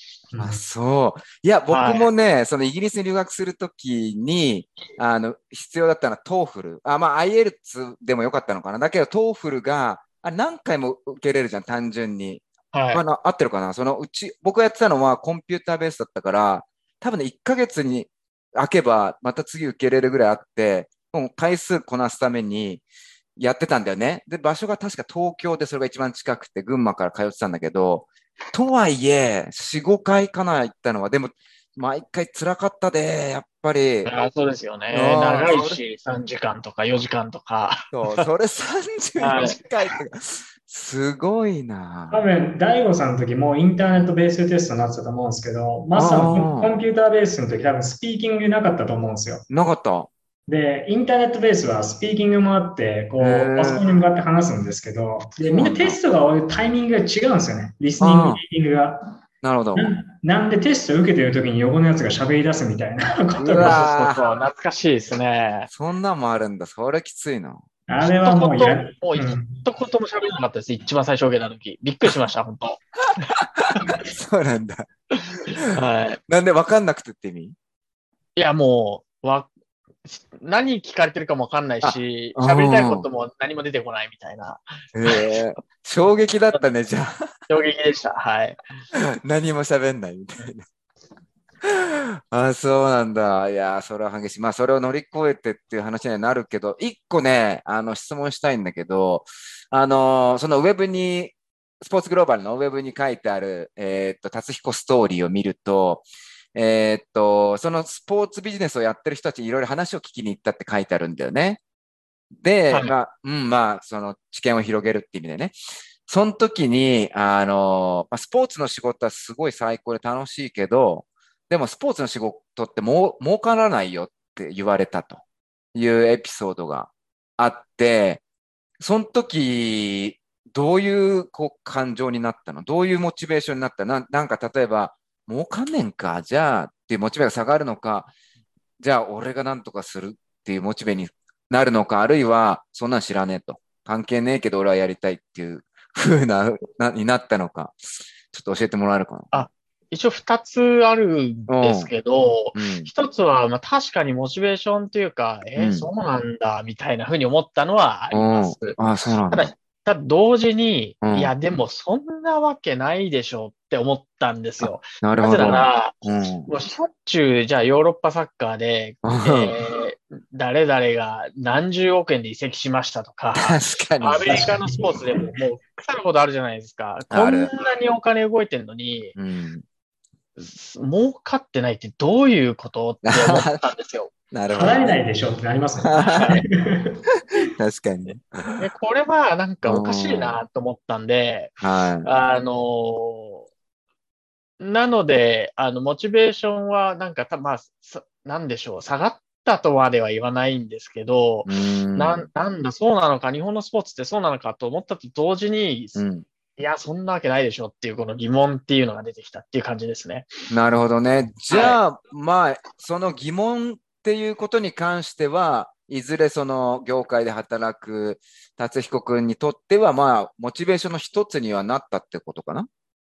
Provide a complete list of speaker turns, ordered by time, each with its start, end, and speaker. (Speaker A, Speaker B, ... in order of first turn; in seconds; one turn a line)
Speaker A: 0.3-0.6
Speaker B: 0.4-22.8
Speaker C: 1.7-2.1
Speaker C: 12.7-13.0
Speaker B: 23.4-34.1
Speaker C: 34.0-38.2
Speaker B: 34.9-35.8
Speaker B: 37.9-42.2
Speaker C: 39.2-39.6
Speaker A: 42.1-49.4
Speaker B: 45.9-46.7
Speaker B: 49.5-50.1
Speaker A: 50.5-59.2
Speaker B: 53.2-53.8
Speaker B: 55.4-56.0
Speaker B: 58.0-58.4
Speaker B: 59.4-59.9
Speaker A: 59.7-63.8
Speaker B: 63.4-64.2
Speaker C: 63.5-65.7
Speaker B: 65.7-67.6
Speaker A: 67.9-69.6
Speaker C: 68.2-73.3
Speaker B: 73.4-74.9
Speaker C: 75.2-76.2
Speaker B: 76.3-77.5
Speaker C: 78.3-79.5
Speaker C: 80.0-85.4
Speaker B: 81.8-83.0
Speaker B: 84.9-87.2
Speaker C: 87.5-88.6
Speaker B: 88.9-90.7
Speaker B: 91.6-111.6
Speaker B: 112.3-115.5
Speaker B: 116.1-125.2
Speaker B: 125.7-128.2
Speaker B: 128.8-138.1
Speaker B: 138.8-149.3
Speaker C: 149.3-165.9
Speaker B: 151.5-151.9
Speaker B: 152.5-152.9
Speaker B: 155.6-155.9
Speaker B: 158.1-159.5
Speaker B: 161.0-161.3
Speaker B: 164.6-166.5
Speaker C: 166.4-179.2
Speaker B: 169.0-169.5
Speaker B: 173.3-174.6
Speaker A: 174.2-175.2
Speaker B: 177.1-177.5
Speaker B: 179.2-179.6
Speaker C: 180.4-184.1
Speaker B: 183.0-183.6
Speaker B: 184.3-184.9
Speaker A: 184.5-187.4
Speaker B: 185.8-186.4
Speaker C: 186.0-186.4
Speaker B: 187.3-188.6
Speaker C: 188.6-193.5
Speaker B: 189.6-190.3
Speaker B: 191.6-192.1
Speaker C: 194.6-206.0
Speaker B: 201.4-202.2
Speaker B: 205.9-206.2
Speaker C: 206.6-210.3
Speaker B: 210.5-222.7
Speaker C: 211.5-211.8